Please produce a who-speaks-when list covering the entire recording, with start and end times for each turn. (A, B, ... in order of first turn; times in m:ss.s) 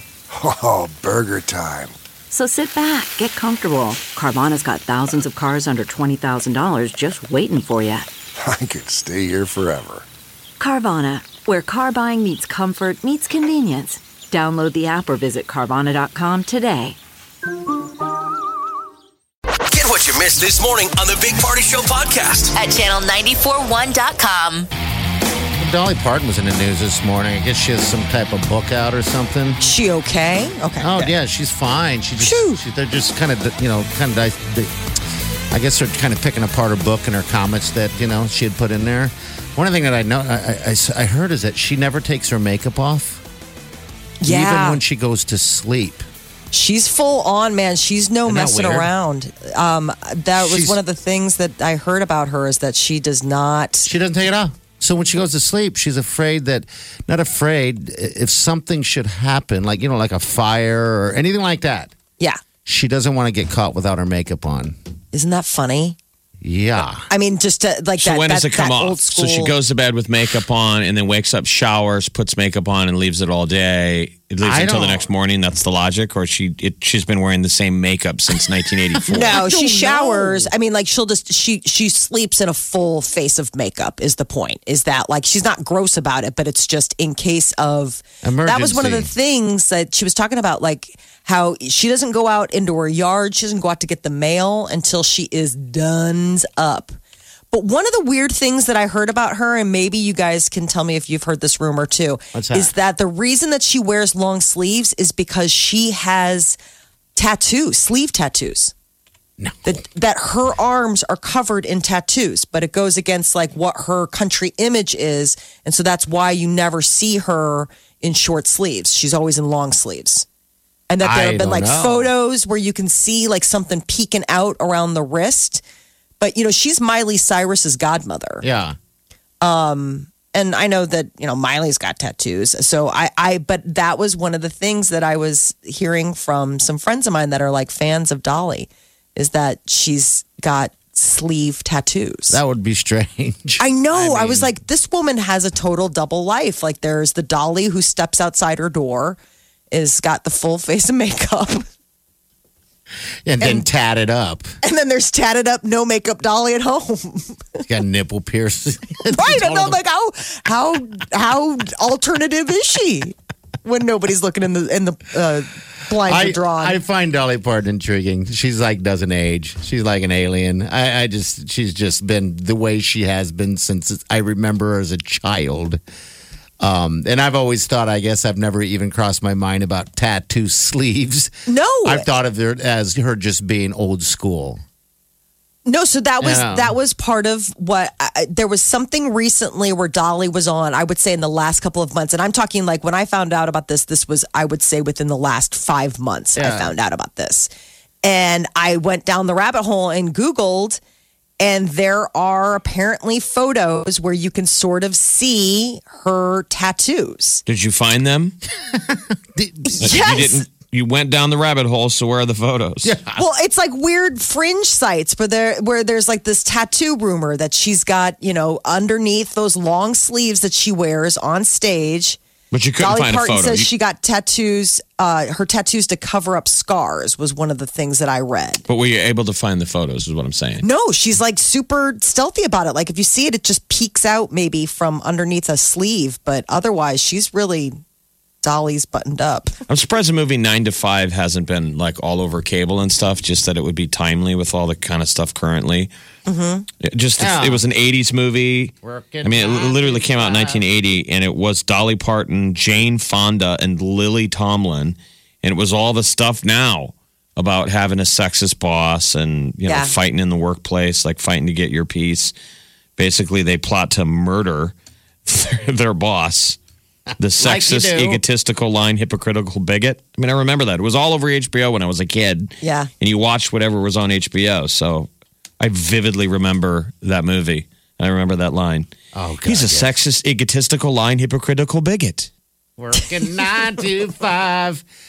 0:00.3-0:02.0 A
0:02.3-0:08.1 B
0:08.4-0:10.1 A
0:10.6-0:17.0 B
0:19.7-0:22.5 C
0:22.6-0:24.7 D
0:25.6-0:29.6 E
0:29.6-0:31.0 F
0:30.8-0:34.7 E
0:32.2-0:32.6 F
0:35.5-0:43.2 E
0:44.2-0:44.8 F
0:44.2-0:46.0 E
0:46.5-0:53.9 F
0:48.2-0:48.9 E
0:50.4-0:50.8 E
0:53.8-1:01.9 E
1:02.6-1:04.8 E
1:05.1-1:06.0 F
1:06.4-1:07.1 E
1:07.0-1:09.6 F
1:08.0-1:19.4 G
1:14.4-1:15.1 E
1:19.0-1:20.5 E
1:19.1-1:37.0 F
1:28.2-1:29.1 E
1:37.5-1:46.6 F
1:42.3-1:42.7 E
1:47.2-1:48.7 F
1:49.4-1:49.8 E
1:49.6-2:00.2 F
2:00.9-2:05.6 F
2:01.0-2:02.1 E
2:06.2-2:08.4 F
2:08.4-2:08.8 E
2:09.4-2:22.4 F
2:22.3-2:24.5 E
2:23.6-2:29.2 F
2:29.7-2:31.7 F
2:33.2-2:34.5 E
2:33.4-2:33.7 F
2:34.6-2:37.6 F
2:37.7-2:39.8 E
2:39.2-2:46.8 F
2:46.0-2:55.8 E
2:56.6-3:01.3 E
3:01.5-3:02.1 F
3:01.8-3:04.6 E
3:05.6-3:17.5 F
3:06.2-3:06.7 E
3:16.4-3:16.7 E
3:18.0-3:20.8 F
3:21.4-3:27.4 F
3:27.5-3:28.4 G
3:28.7-3:30.3 E
3:29.7-3:30.4 F
3:29.8-3:32.9 G
3:32.8-3:33.2 E
3:33.2-3:42.2 F
3:42.5-3:43.7 G
3:42.8-3:48.6 F
3:48.7-3:50.6 G
3:50.6-3:57.8 F
3:58.4-3:59.5 F
3:59.7-4:05.9 G
4:06.3-4:06.7 F
4:06.8-4:22.3 G
4:07.2-4:07.6 E
4:08.8-4:10.7 E
4:19.6-4:19.9 F
4:23.0-4:24.8 G
4:25.2-4:26.6 G
4:27.2-4:35.1 G
4:27.4-4:28.2 E
4:32.6-4:32.9 F
4:35.6-4:38.9 G
4:39.1-4:39.9 E
4:39.4-4:42.3 G
4:42.8-4:44.8 E